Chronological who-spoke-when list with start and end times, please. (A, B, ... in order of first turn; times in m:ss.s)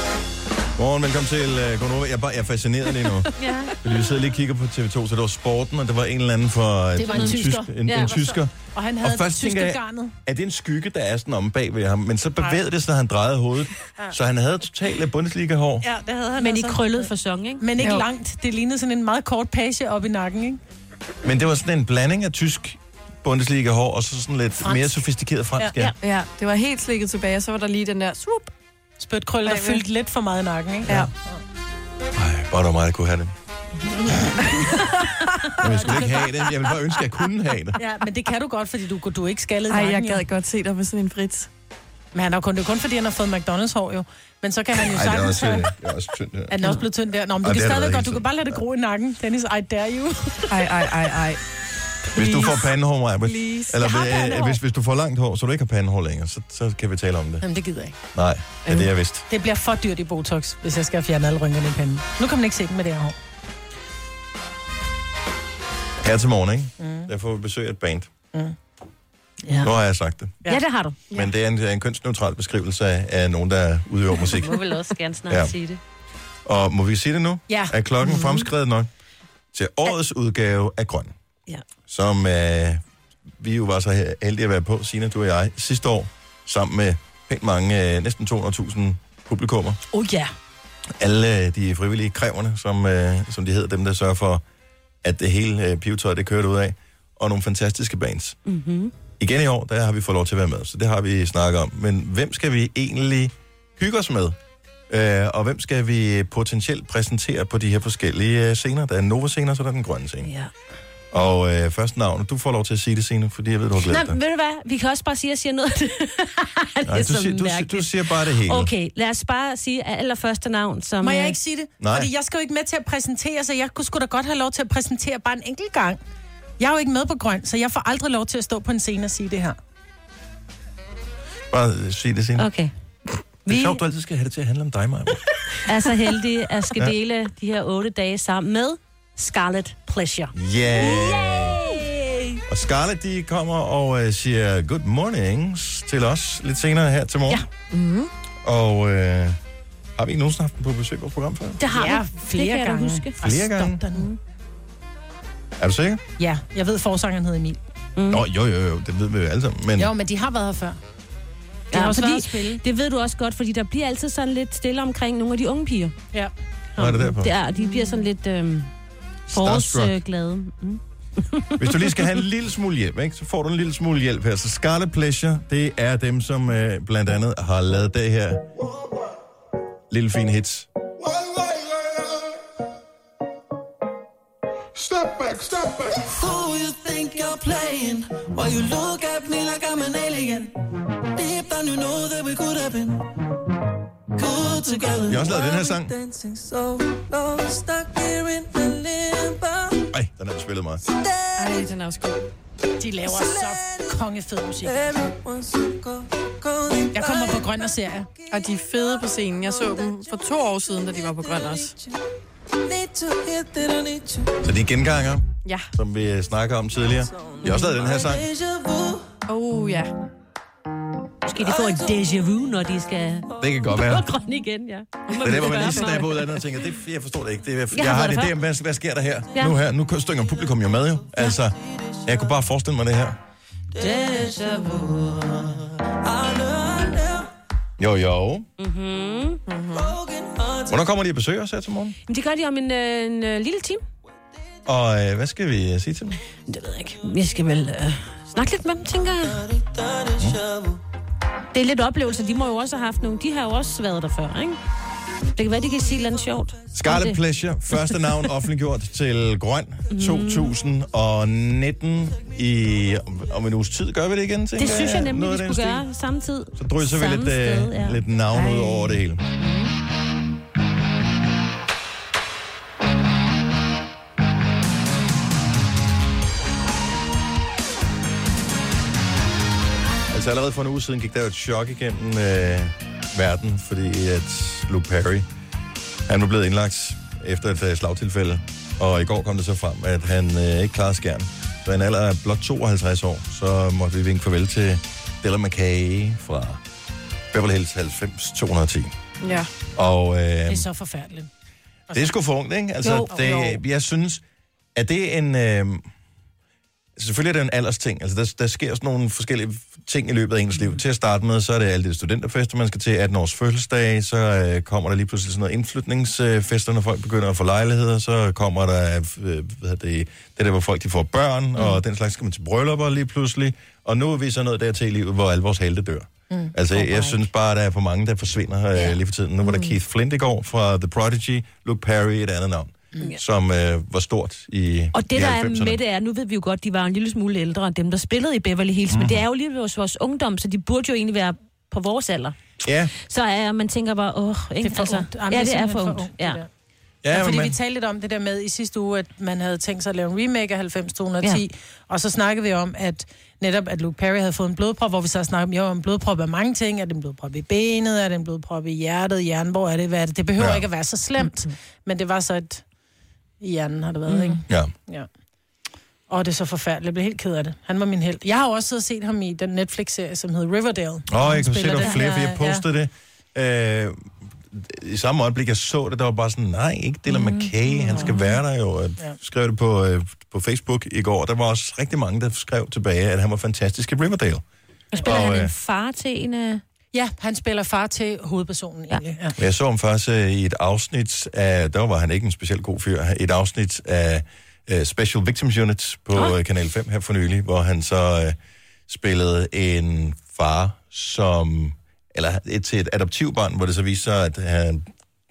0:00.8-0:15.8 A
0:03.4-0:03.7 B
0:07.0-0:10.1 C
0:07.1-0:08.2 B
0:15.8-0:17.1 C
0:16.3-0:17.6 B
0:17.6-0:20.6 C
0:17.8-0:18.0 D
0:21.2-0:25.9 A
0:24.6-0:25.0 C
0:26.0-0:28.4 D
0:29.0-0:31.4 C
0:29.4-0:29.8 D
0:32.1-0:33.3 A
0:35.6-0:36.2 C
0:35.6-0:37.8 A
0:37.8-0:40.2 C
0:39.7-0:41.5 D
0:42.1-0:45.7 C
0:44.8-0:46.8 A
0:46.5-0:50.7 C
0:47.4-0:48.5 A
0:50.5-0:51.4 D
0:52.1-0:52.6 D
0:52.1-0:57.4 A
0:53.2-0:53.8 D
0:53.8-0:54.6 C
0:57.4-0:58.0 C
0:58.1-0:59.2 A
0:59.3-1:03.2 C
1:06.0-1:08.1 A
1:06.8-1:07.1 C
1:09.6-1:10.4 A
1:10.4-1:11.0 B
1:11.1-1:14.6 A
1:14.2-1:15.8 B
1:15.3-1:15.5 A
1:16.4-1:18.9 A
1:17.5-1:17.7 C
1:18.0-1:18.4 D
1:19.5-1:21.1 A
1:21.9-1:22.8 A
1:23.4-1:29.8 A
1:29.9-1:30.3 B
1:31.0-1:34.4 A
1:35.0-1:38.4 A
1:38.4-1:38.9 B
1:39.2-1:44.4 A
1:44.9-1:50.3 A
1:50.2-1:50.5 B
1:51.1-1:54.2 A
1:53.8-2:01.4 B
1:56.9-1:58.7 A
2:01.0-2:06.0 C
2:01.8-2:02.1 A
2:06.6-2:09.6 C
2:11.5-2:12.5 A
2:12.4-2:12.7 B
2:13.4-2:13.8 B
2:13.5-2:15.3 A
2:15.6-2:22.4 B
2:20.3-2:21.7 A
2:22.5-2:27.4 A
2:27.7-2:28.1 D
2:28.4-2:29.4 A
2:30.0-2:31.6 A
2:31.6-2:33.1 B
2:31.7-2:34.1 C
2:33.2-2:33.8 A
2:35.6-2:36.0 A
2:36.2-2:37.6 C
2:38.0-2:38.2 B
2:38.1-2:39.9 A
2:39.8-2:40.8 C
2:41.7-2:42.6 C
2:41.7-2:45.9 B
2:46.8-2:48.7 B
2:46.8-2:47.3 A
2:47.6-2:47.9 D
2:49.3-2:49.9 A
2:49.3-2:52.1 B
2:51.6-2:58.5 A
2:59.9-3:00.7 A
3:04.8-3:10.5 E
3:11.1-3:13.1 E
3:14.2-3:19.8 E
3:15.0-3:15.9 A
3:19.9-3:20.8 A
3:20.9-3:21.7 E
3:21.4-3:22.3 D
3:22.8-3:25.0 C
3:23.0-3:23.9 E
3:24.6-3:27.7 E
3:26.9-3:28.1 C
3:28.3-3:31.7 D
3:28.3-3:31.8 E
3:32.6-3:34.4 E
3:34.4-3:38.2 A
3:37.2-3:39.1 E
3:37.4-3:37.7 B
3:39.3-3:39.9 D
3:41.2-3:46.4 B
3:41.4-3:42.0 E
3:43.4-3:44.1 A
3:45.1-3:46.0 D
3:45.2-3:53.2 A
3:47.7-3:48.3 B
3:53.8-3:55.2 E
3:53.8-3:54.9 B
3:56.0-3:57.3 E
3:57.8-3:58.5 A
3:58.6-3:59.4 B
3:59.5-4:00.0 D
3:59.7-4:00.7 E
4:00.7-4:02.0 A
4:02.1-4:03.8 B
4:04.6-4:06.2 A
4:06.5-4:09.5 B
4:09.6-4:10.7 E
4:11.5-4:14.6 B
4:15.3-4:17.2 B
4:16.7-4:25.8 A
4:19.9-4:20.5 B
4:24.6-4:28.6 B
4:26.6-4:29.2 A
4:29.4-4:29.7 B
4:40.1-4:45.3 A
4:46.1-4:56.6 A
4:57.3-4:58.9 A
4:59.2-4:59.5 D
4:59.7-5:00.6 A
5:00.5-5:01.3 C
5:01.9-5:02.1 C
5:01.9-5:04.2 A
5:02.8-5:03.1 B
5:04.7-5:05.9 A
5:07.0-5:35.8 A
5:26.7-5:27.2 B
5:29.4-5:29.7 D
5:34.9-5:42.3 B
5:38.9-5:39.2 A
5:42.6-5:42.9 A
5:43.0-5:46.4 B
5:44.6-5:46.5 C
5:47.0-5:47.6 A
5:47.1-6:02.6 C
6:00.4-6:00.6 A
6:03.4-6:05.1 C
6:04.1-6:04.4 B
6:06.1-6:12.6 C
6:11.1-6:24.4 A
6:17.1-6:18.4 B
6:24.9-6:26.6 B
6:25.0-6:25.5 A
6:26.9-6:29.4 C
6:29.4-6:38.4 A
6:38.9-6:44.9 A